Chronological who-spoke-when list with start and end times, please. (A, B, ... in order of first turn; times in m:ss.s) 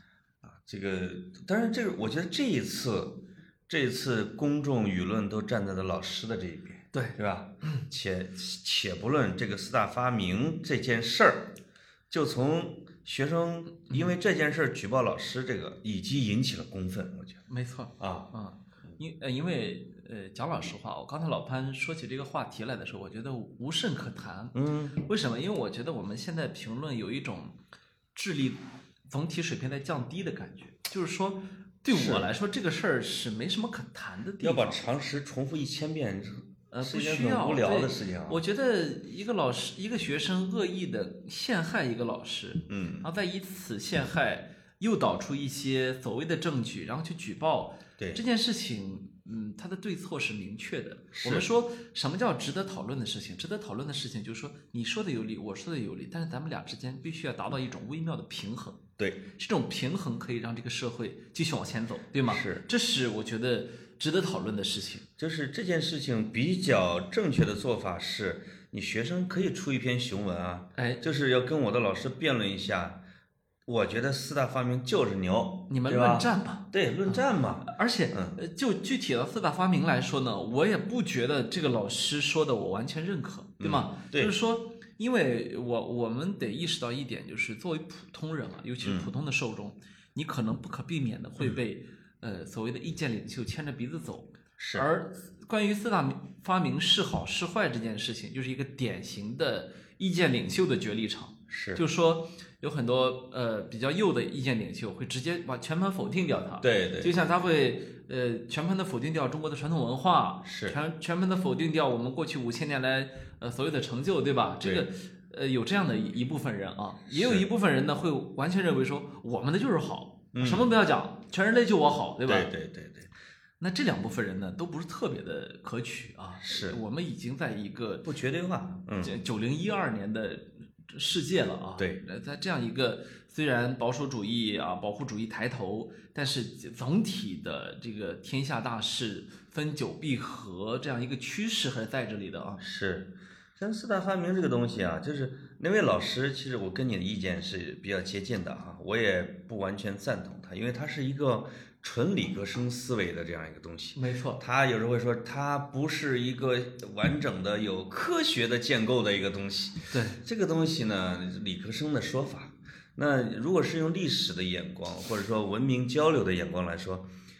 0:00.4-0:11.5 A
0:06.9-0:07.8 B
0:12.1-0:17.4 A
0:17.5-0:27.6 B
0:18.0-0:18.3 A
0:24.5-0:25.0 A
0:28.1-0:34.8 B
0:31.9-0:32.3 A
0:34.4-0:38.4 A
0:36.7-0:58.8 B
0:42.7-0:43.1 A
0:51.1-0:51.5 A
0:59.0-0:59.2 A
0:59.3-1:05.1 B
1:02.2-1:02.6 A
1:05.2-1:13.0 A
1:10.8-1:11.0 B
1:13.6-1:18.4 A
1:15.7-2:02.5 B
1:23.6-1:24.3 A
1:28.8-1:29.1 A
1:34.6-1:34.9 A
1:41.5-1:41.8 A
1:46.6-1:47.2 A
1:50.4-1:50.8 A
1:57.1-1:57.4 A
2:00.3-2:00.7 A
2:02.2-2:03.1 A
2:03.6-2:08.1 B
2:06.4-2:06.8 A
2:08.0-2:09.2 A
2:09.0-2:22.6 B
2:22.6-2:47.1 A
2:33.9-2:34.4 B
2:39.9-2:40.2 B